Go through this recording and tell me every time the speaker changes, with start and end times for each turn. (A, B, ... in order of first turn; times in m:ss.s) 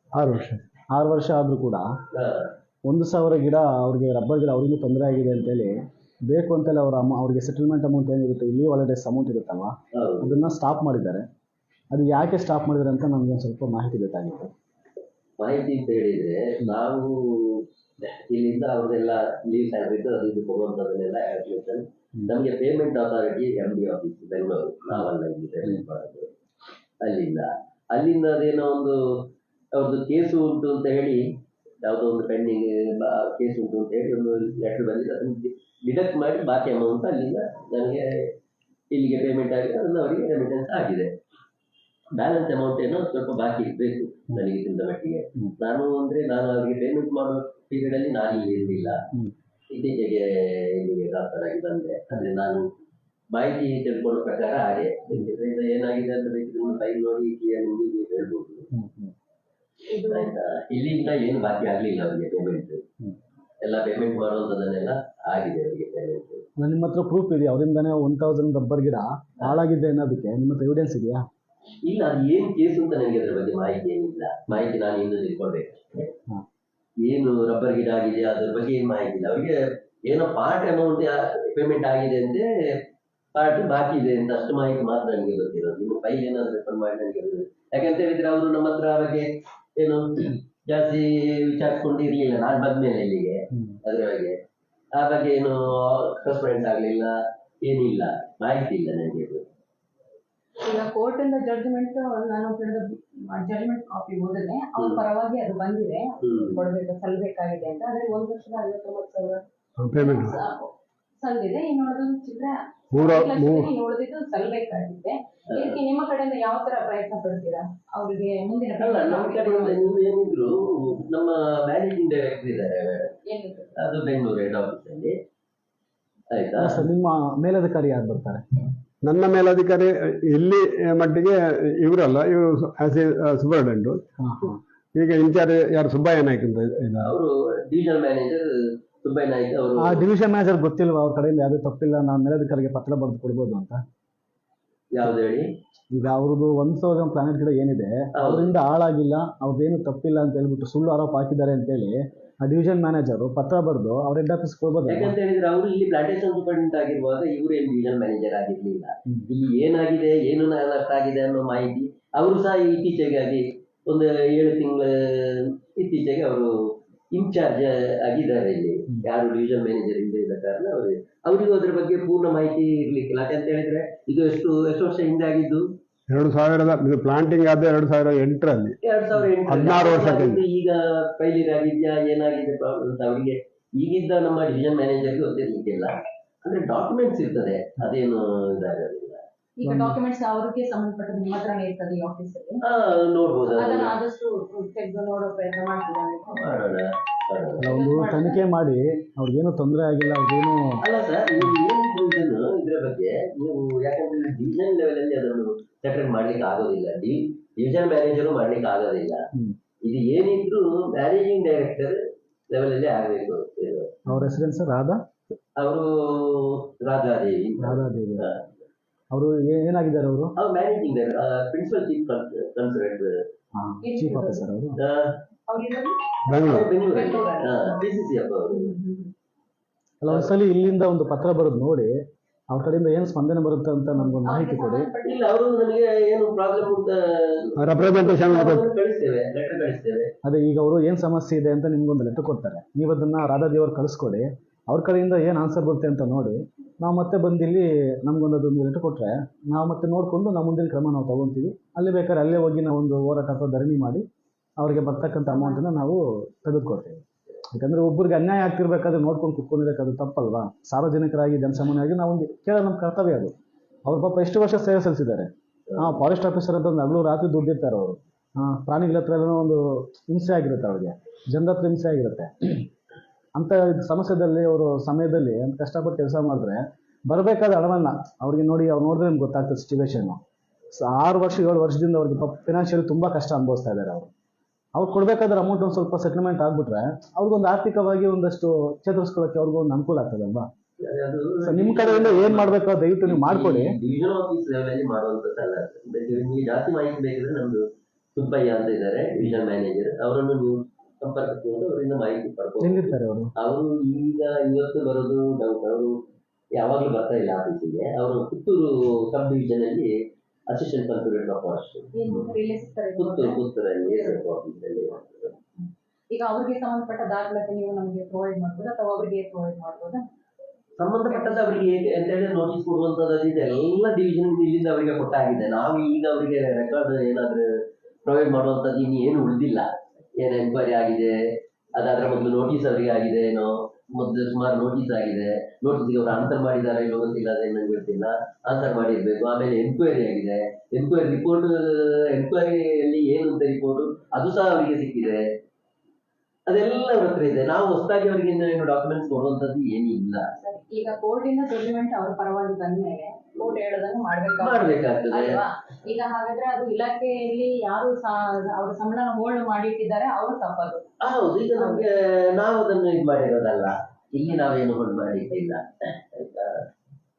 0:00.1-0:00.6 A
0:00.9-0:01.8 B
0:02.1-0:02.5 C
0:02.9-0:11.2 B
0:09.9-0:10.4 C
0:11.9-0:14.5 B
0:15.4-0:26.3 C
0:27.0-0:38.3 C
0:38.9-0:41.1 C
0:42.1-0:49.0 C
0:49.7-0:52.6 C
0:53.3-0:58.7 C
0:58.7-0:59.1 B
0:59.9-1:00.3 D
1:00.1-1:02.8 C
1:03.6-1:06.4 C
1:06.6-1:11.2 B
1:11.8-1:16.1 C
1:17.0-1:34.4 C
1:34.9-1:39.4 C
1:40.6-1:49.4 D
1:44.8-1:45.0 C
1:46.2-1:46.6 C
1:49.8-1:50.4 A
1:50.0-1:59.9 D
1:52.9-1:53.7 A
1:55.5-1:55.8 C
1:58.8-2:03.1 C
2:03.3-2:03.8 D
2:03.8-2:05.2 C
2:06.3-2:06.8 C
2:06.6-2:08.4 B
2:09.0-2:14.0 A
2:14.2-2:14.6 B
2:15.0-2:17.1 A
2:17.0-2:18.5 C
2:19.0-2:20.0 C
2:19.8-2:23.8 B
2:24.9-2:25.5 C
2:25.9-2:35.1 B
2:28.2-2:28.5 C
2:34.9-2:55.6 C
2:56.1-2:58.8 A
2:58.8-3:09.2 C
2:59.4-3:00.4 A
3:09.6-3:12.6 D
3:09.6-3:10.0 B
3:12.6-3:14.0 C
3:13.5-3:16.7 D
3:16.3-3:17.7 C
3:17.6-3:20.8 B
3:17.6-3:18.4 D
3:20.8-3:29.2 C
3:29.8-3:32.0 C
3:32.5-3:34.0 C
3:34.0-3:35.0 B
3:35.6-3:38.4 C
3:37.6-3:38.3 B
3:39.1-3:40.3 B
3:40.4-3:43.2 C
3:43.5-3:44.8 B
3:43.8-3:44.4 D
3:44.8-3:45.2 C
3:45.5-3:47.8 D
3:46.3-3:46.7 A
3:46.4-3:48.7 C
3:48.5-3:49.1 D
3:50.0-3:52.0 B
3:50.1-3:50.3 C
3:52.5-3:54.9 B
3:54.0-3:55.3 D
3:55.0-4:00.1 C
3:57.6-3:58.6 A
4:00.2-4:14.0 B
4:14.6-4:23.3 B
4:23.8-4:32.7 B
4:33.3-4:40.2 B
4:40.7-4:44.1 B
4:44.8-4:50.5 B
4:50.8-4:57.6 C
4:51.4-4:53.8 B
4:58.1-5:06.0 C
5:02.6-5:03.3 B
5:06.6-5:09.9 C
5:10.5-5:12.3 C
5:11.9-5:14.2 D
5:13.0-5:15.4 C
5:16.1-5:20.0 D
5:20.8-5:27.4 C
5:21.1-5:21.7 D
5:28.0-5:31.2 C
5:31.8-5:45.2 C
5:46.5-5:50.3 C
5:50.4-6:01.0 D
5:54.4-5:55.4 C
6:01.0-6:06.6 C
6:01.6-6:01.8 D